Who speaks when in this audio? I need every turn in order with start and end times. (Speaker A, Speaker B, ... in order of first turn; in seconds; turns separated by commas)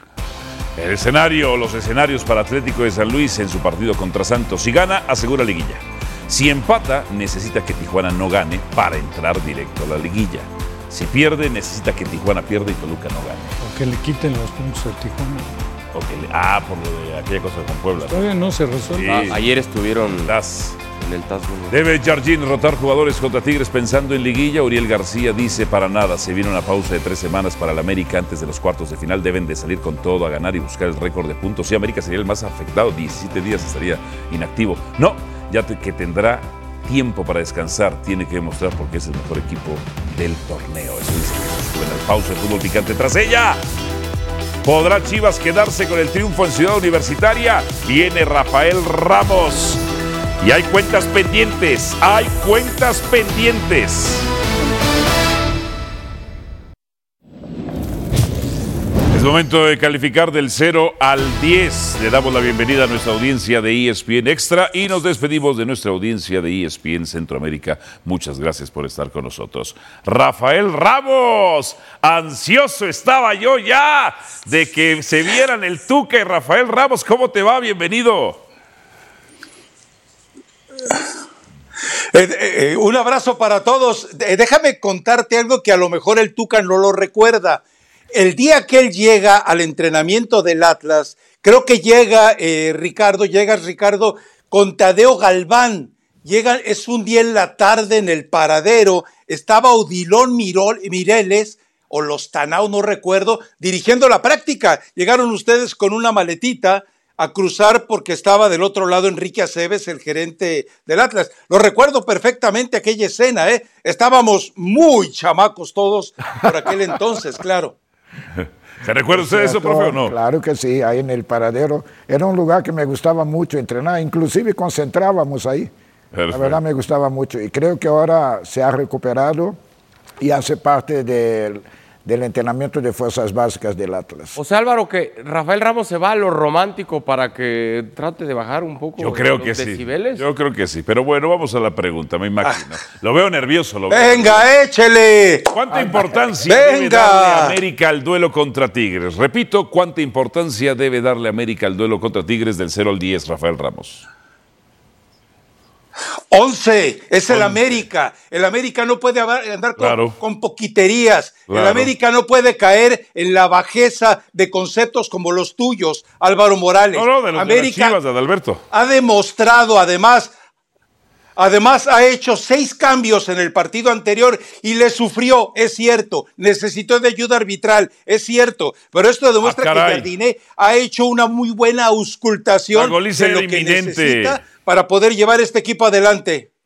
Speaker A: 0.8-13.6, Speaker B: 13.6-15.5, Speaker A: 15.9-18.3, Speaker B: 18.0-19.3, Speaker A: 18.9-19.4, Speaker C: 19.0-20.4, Speaker A: 20.2-20.8, Speaker C: 20.9-21.8, Speaker A: 21.7-43.6, Speaker A: 44.6-49.8, Speaker A: 50.4-54.3, Speaker A: 59.1-78.4, Speaker D: 82.1-117.7, Speaker A: 118.4-120.1, Speaker E: 119.1-125.7, Speaker A: 126.1-126.6, Speaker E: 126.3-129.6, Speaker E: 130.2-134.4, Speaker C: 134.3-140.2, Speaker A: 139.0-144.5, Speaker D: 143.9-147.6, Speaker A: 145.5-154.0, Speaker D: 156.3-168.0, Speaker A: 157.3-157.8, Speaker A: 159.8-160.2, Speaker A: 161.5-161.9, Speaker A: 166.9-168.6, Speaker D: 168.7-170.3, Speaker D: 171.4-186.5, Speaker A: 179.4-180.1, Speaker A: 182.7-184.5